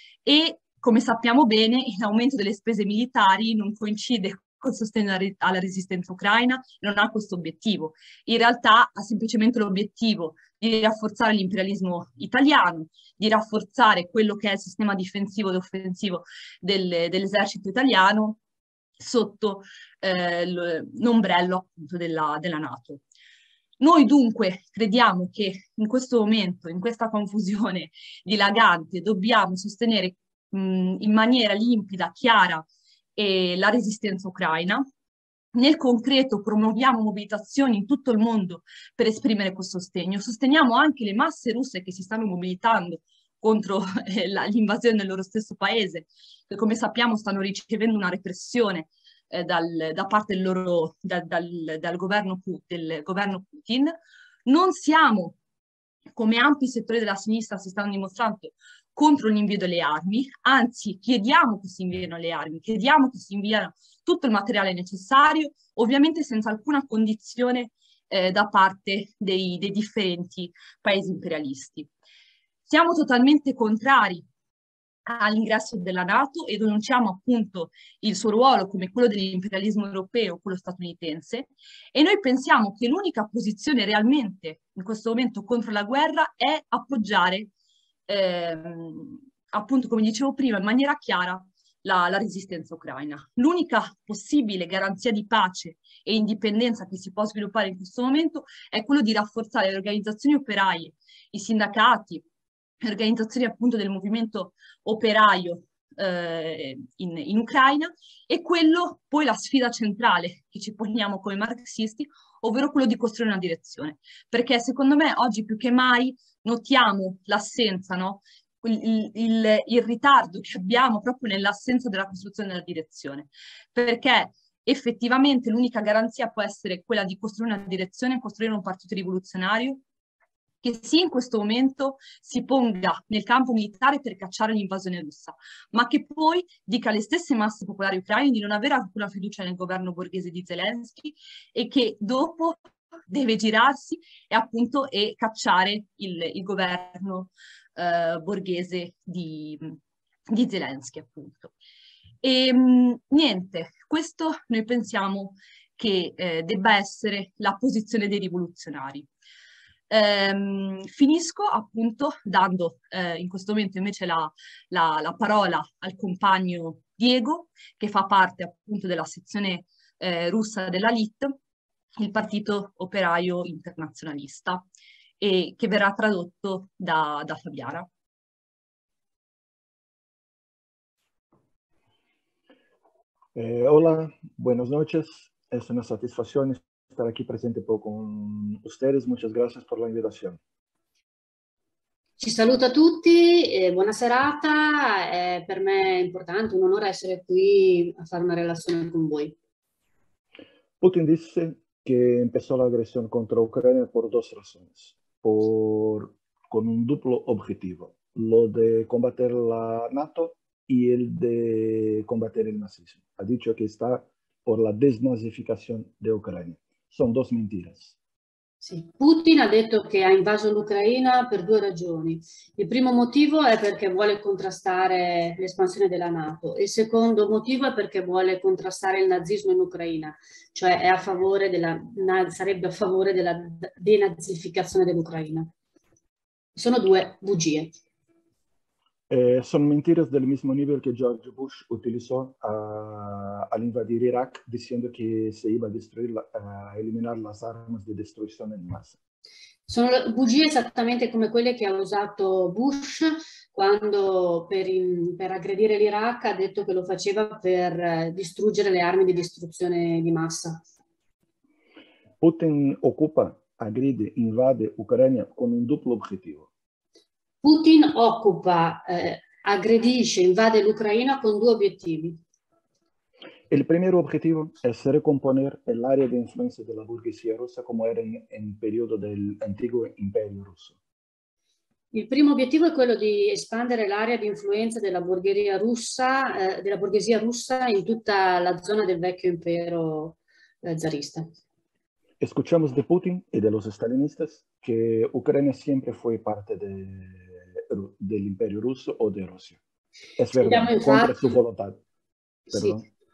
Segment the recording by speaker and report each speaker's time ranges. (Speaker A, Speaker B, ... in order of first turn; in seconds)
Speaker A: 0.2-18.4, 19.0-23.0, 23.8-34.9, 35.5-54.0, 54.5-55.4, 56.2-71.9, 72.7-74.2, 75.1-87.5, 88.1-102.2, 102.8-129.8, 130.6-142.6, 143.1-149.8, 150.3-151.5, 152.2-159.1, 159.9-171.4, 172.0-174.7, 175.2-177.9
Speaker B: 183.3-190.4, 200.8-217.9, 239.1-249.0, 262.2-266.5, 273.5-280.8, 292.2-299.6, 300.2-301.8, 302.5-302.8
Speaker C: 192.2-199.4, 218.6-235.5, 236.6-237.7, 249.7-260.6, 267.4-272.2, 281.9-291.3, 300.4-301.4, 302.5-302.8